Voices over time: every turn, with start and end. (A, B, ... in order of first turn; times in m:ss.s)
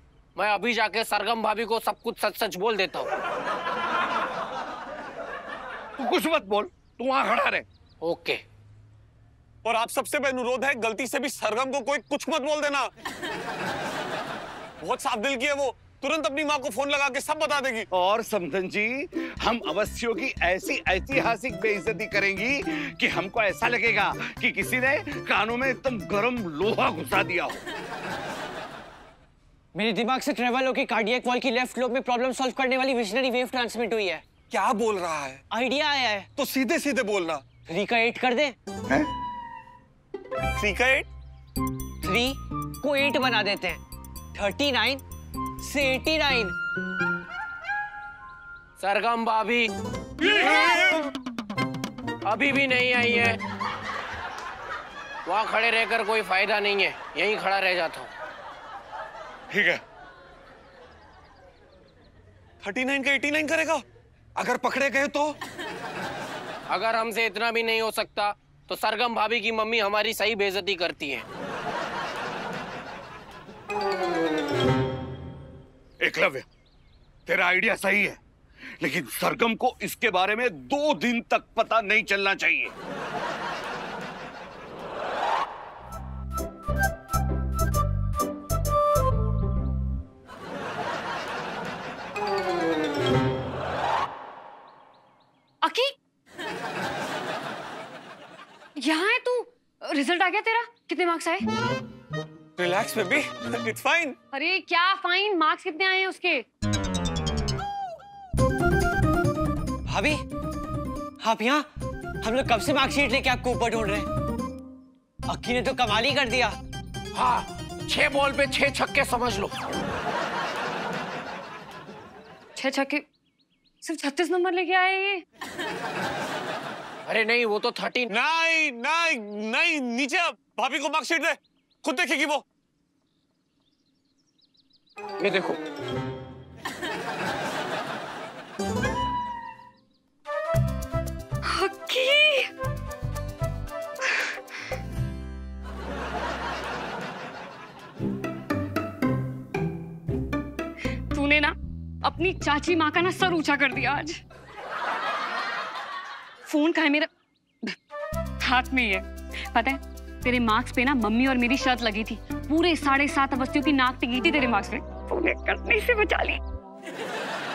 0:00.4-0:03.1 A
0:06.0-0:07.6 B
0:08.0-0:08.4 A
0:09.6-0:12.9 C
0:14.8-0:17.9 C
0:17.9-0:27.6 B
0:29.8-0:34.2 D
0:34.5-0:35.4 E
0:35.5-0:36.3 D
0:36.4-0:37.5 E
0:37.6-0:38.6 D
0:40.6-0:41.1 C
0:42.0-0:43.8 D
0:44.3-0:45.0 D
0:45.6-0:46.6 D
0:48.8-0:49.7 A
0:50.2-0:50.9 A
0:52.2-0:53.4 A
0:55.3-0:58.1 A
0:59.5-0:59.8 E
1:02.6-1:03.8 C
1:04.4-1:05.4 E
1:06.7-1:11.2 A
1:16.0-1:16.5 B
1:17.3-1:18.2 B
1:18.8-1:22.7 B
1:35.6-1:35.9 F
1:38.8-1:41.4 F
1:42.6-1:44.2 C
1:44.3-1:46.4 F
1:49.9-1:50.2 D
1:51.2-1:51.6 D
1:52.2-1:54.1 D
1:55.3-1:56.6 D
1:57.1-1:59.5 A
2:02.6-2:03.1 F
2:03.8-2:05.2 F
2:07.1-2:08.1 A
2:08.1-2:12.4 C
2:15.2-2:15.6 A
2:21.5-2:22.5 F
2:31.1-2:34.2 F
2:36.5-2:37.1 F
2:38.4-2:46.4 F